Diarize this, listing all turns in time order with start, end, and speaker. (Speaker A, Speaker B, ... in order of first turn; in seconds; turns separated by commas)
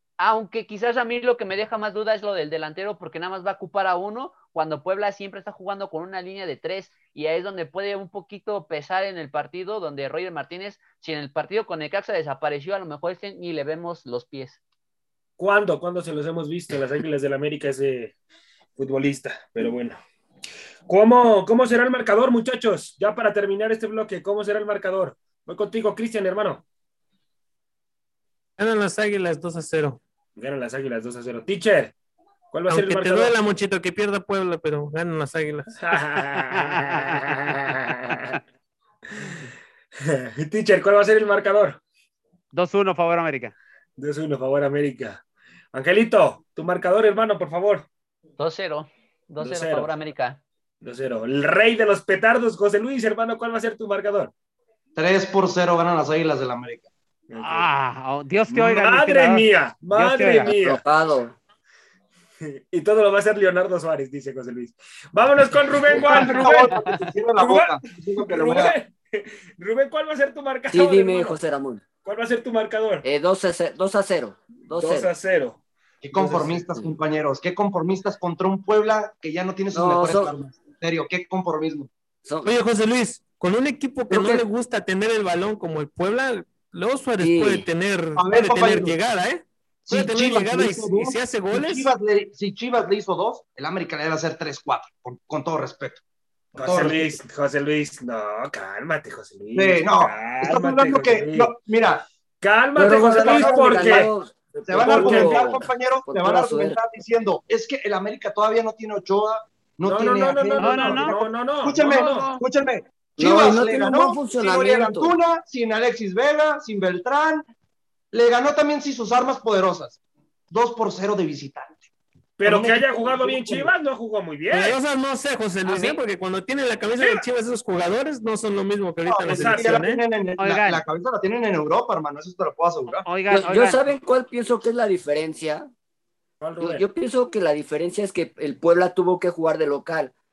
Speaker A: 0.2-14.6, Speaker B: 15.4-18.1, Speaker B: 18.8-20.0, Speaker B: 20.9-26.6, Speaker C: 28.6-30.0, Speaker B: 30.4-31.9, Speaker B: 32.5-33.3, Speaker C: 32.7-36.0, Speaker B: 35.8-38.4, Speaker D: 36.5-37.4, Speaker B: 39.1-39.5, Speaker B: 40.0-41.8, Speaker D: 42.5-43.5, Speaker B: 44.0-45.2, Speaker B: 45.7-47.9, Speaker A: 48.4-50.4, Speaker B: 49.4-49.9, Speaker B: 50.8-54.3, Speaker E: 55.0-56.9, Speaker B: 57.3-57.7, Speaker D: 57.4-60.5, Speaker B: 58.5-60.8, Speaker F: 60.4-61.4, Speaker B: 62.7-66.7, Speaker E: 66.0-68.8, Speaker B: 67.4-71.4, Speaker F: 70.7-71.8, Speaker B: 72.0-73.0, Speaker F: 73.0-75.1, Speaker B: 74.7-75.6, Speaker E: 76.0-81.9, Speaker B: 76.1-76.7, Speaker F: 79.7-80.3, Speaker F: 82.2-82.5, Speaker C: 82.4-91.9, Speaker E: 84.1-84.4, Speaker F: 87.2-87.7, Speaker E: 88.2-89.0, Speaker E: 89.9-96.0, Speaker B: 96.5-101.5, Speaker E: 96.6-97.2, Speaker E: 99.5-102.0, Speaker B: 102.4-105.5, Speaker F: 102.8-106.8, Speaker E: 102.9-104.1, Speaker E: 104.7-117.5, Speaker B: 109.8-112.3, Speaker D: 110.6-111.2, Speaker D: 112.0-112.4, Speaker F: 113.2-115.2, Speaker E: 118.1-120.0, Speaker E: 120.5-121.9, Speaker B: 122.4-124.8, Speaker E: 122.4-123.7, Speaker C: 124.5-130.0, Speaker B: 127.0-127.3, Speaker E: 129.1-133.1, Speaker B: 129.2-129.8, Speaker D: 130.4-130.8, Speaker D: 132.9-133.8, Speaker F: 133.3-135.7, Speaker B: 136.4-136.8, Speaker F: 136.6-140.1